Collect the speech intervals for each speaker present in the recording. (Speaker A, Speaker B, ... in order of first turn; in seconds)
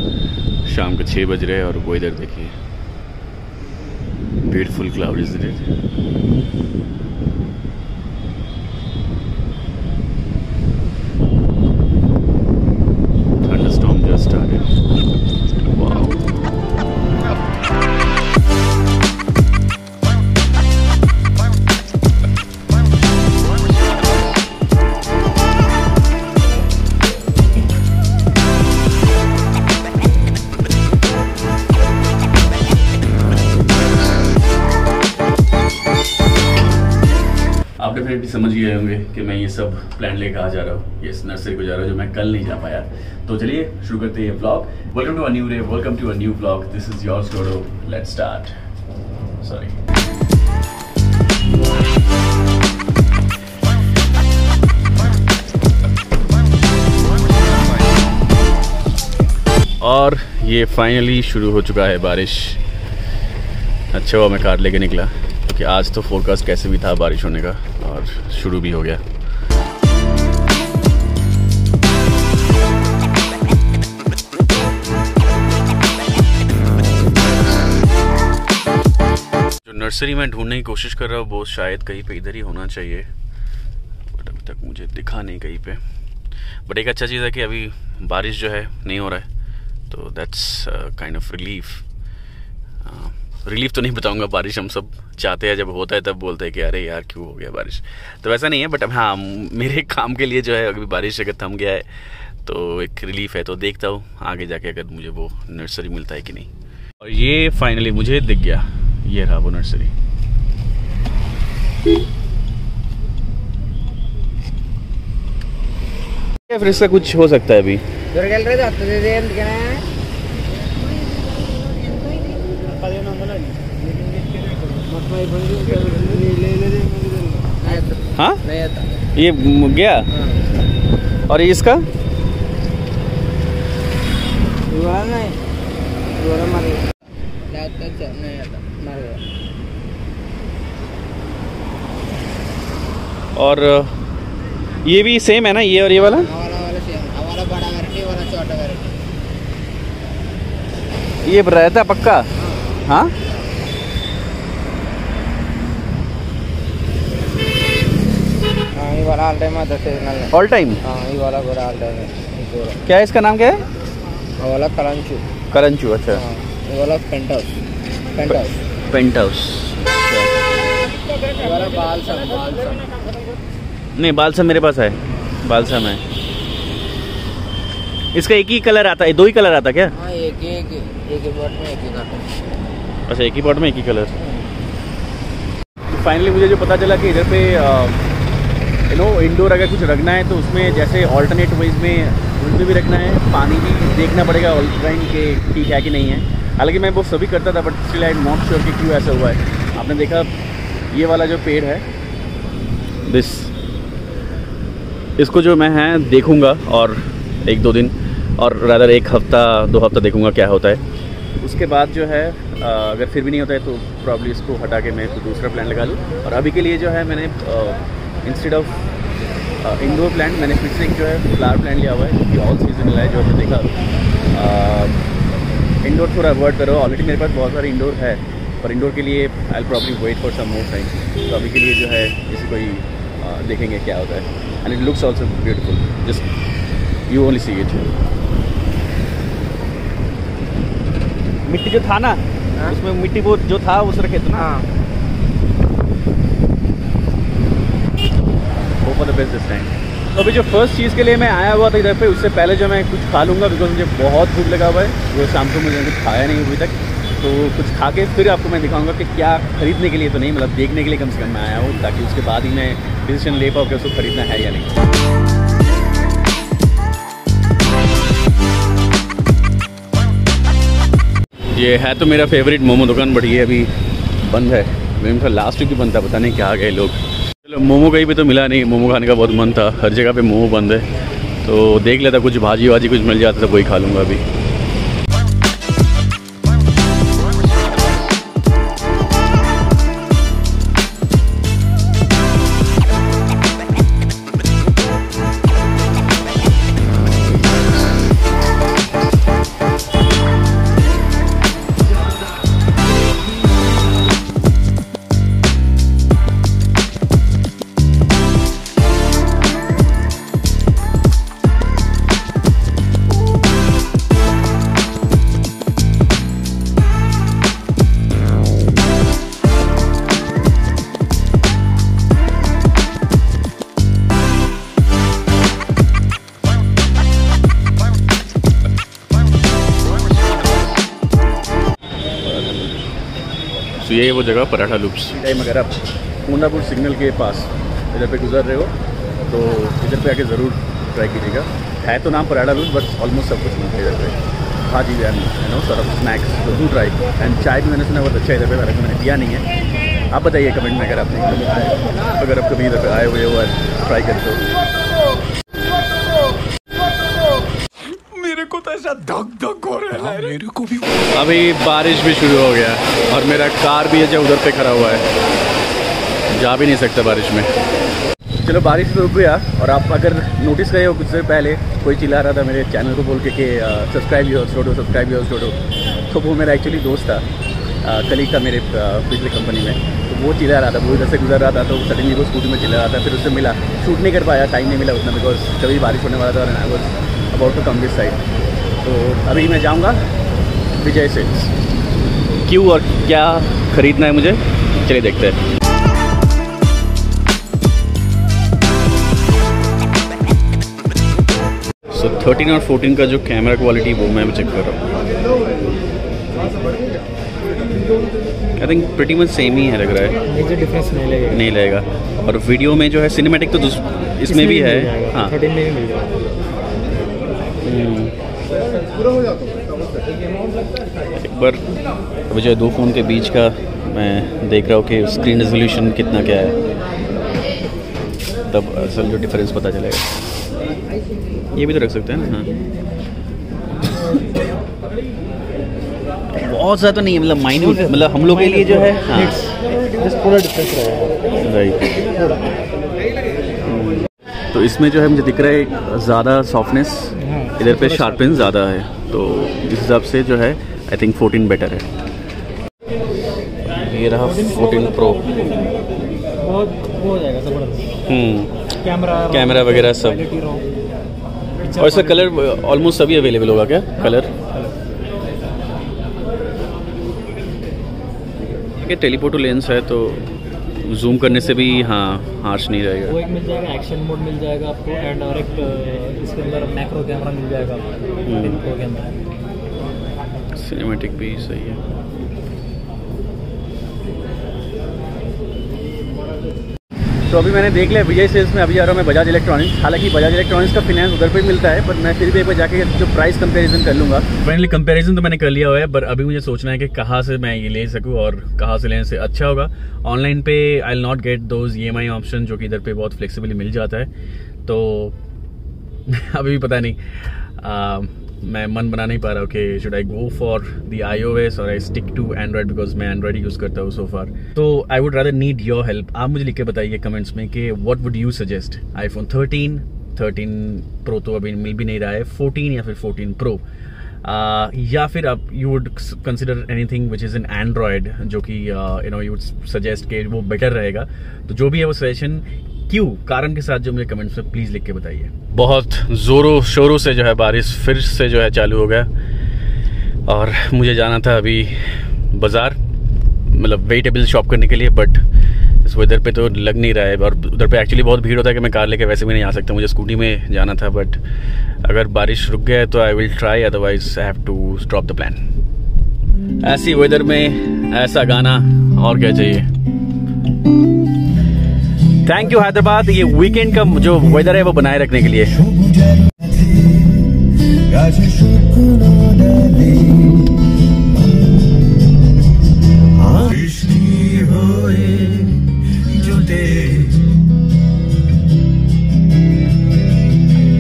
Speaker A: 0.7-2.6, 4.4-5.7, 13.4-14.7, 15.7-16.2, 37.8-48.6, 49.4-49.8, 59.8-62.6, 63.9-69.0, 79.7-83.1, 84.1-85.8, 86.7-89.3, 89.9-91.8, 92.8-101.9, 102.4-109.9, 116.5-117.8, 128.2-128.4, 129.1-130.1, 131.3-131.9, 143.3-144.0, 144.8-146.3, 151.2-152.3, 152.8-153.1, 160.3-160.8, 162.8-163.6, 165.5-166.2, 168.3-170.4, 173.9-176.0, 178.1-180.0, 183.1-184.2, 185.9-188.0, 188.9-200.3, 200.9-201.9, 203.1-203.5, 205.2-210.8, 211.4-218.8, 219.6-223.7, 224.3-225.0, 225.8-236.3, 237.1-237.9, 241.4-244.6, 248.8-264.8, 271.5-280.9, 281.4-284.2, 332.2-332.9, 333.7-338.8, 339.3-349.5, 350.1-354.5, 358.2-360.4, 361.1-365.1, 366.3-367.5, 368.4-377.3, 377.8-388.2, 388.8-390.0, 390.8-391.6, 392.4-395.4, 401.9-404.9, 408.6-410.3, 411.3-415.4, 417.6-418.2, 421.1-421.6, 422.3-426.6, 428.4-430.1, 431.5-432.5, 436.3-439.4, 441.4-442.1, 443.6-451.9, 453.7-455.6, 458.0-460.3, 461.7-464.4, 468.8-473.2, 478.2-478.6, 480.6-481.8, 487.3-504.1, 504.6-505.2, 506.1-523.6, 524.2-539.1, 540.3-542.8, 543.5-551.2, 551.8-555.4, 556.6-559.7, 562.2-565.9, 568.0-570.5, 573.2-577.1
Speaker B: 118.1-119.9, 124.8-128.9, 130.2-130.4, 134.7-135.4, 136.1-136.8, 137.5-139.2, 146.0-149.0, 152.4-152.8, 158.8-160.3, 160.8-162.8, 164.4-165.3, 166.1-167.6, 168.1-168.6, 171.3-173.0, 179.9-182.3, 244.3-244.7
Speaker C: 358.1-360.9
Speaker D: 410.3-411.4, 414.3-416.1, 437.8-441.3, 447.2-448.4, 456.4-457.9, 458.8-460.6, 461.7-462.3, 473.1-479.1